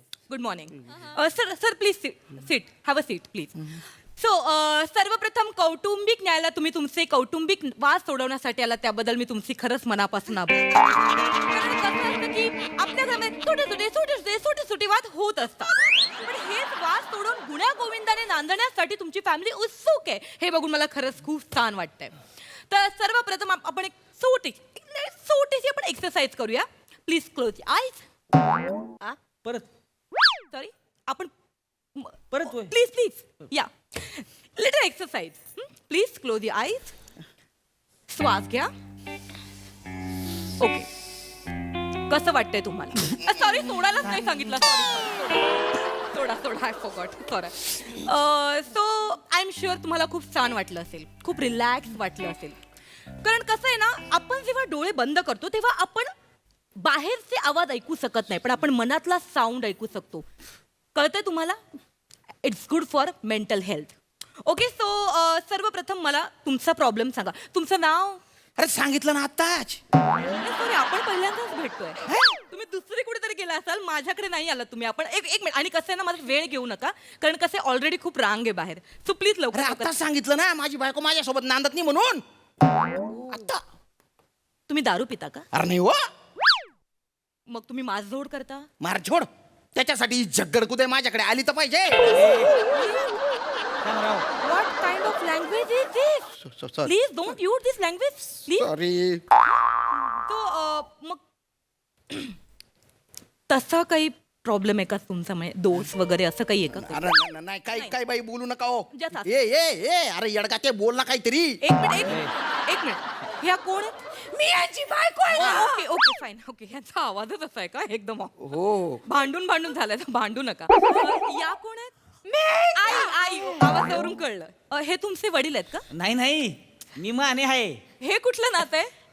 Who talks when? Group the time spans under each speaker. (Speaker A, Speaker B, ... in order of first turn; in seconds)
Speaker A: 0.3-22.1, 22.7-28.0, 30.5-31.3, 31.9-37.0, 38.1-38.7, 40.6-40.9, 42.1-52.6, 53.2-56.1, 56.8-60.2, 61.0-61.6, 62.4-64.0, 64.5-68.2, 70.2-80.0, 84.7-85.5, 87.5-88.7, 92.7-93.1, 94.4-96.3, 96.8-98.7, 100.1-101.2, 103.5-107.2, 108.9-109.4, 111.6-114.0, 115.3-118.5, 119.0-121.9, 122.8-125.9, 128.0-128.9
Speaker B: 32.3-32.7, 92.0-92.7, 93.8-94.3, 112.0-112.3, 125.9-127.8
Speaker C: 68.6-69.8, 72.1-72.4, 79.5-82.2, 83.3-83.6, 85.5-86.0, 88.8-92.2, 96.4-96.9, 98.5-99.2, 106.7-111.6, 118.4-119.0
Speaker D: 114.3-115.9, 122.3-123.6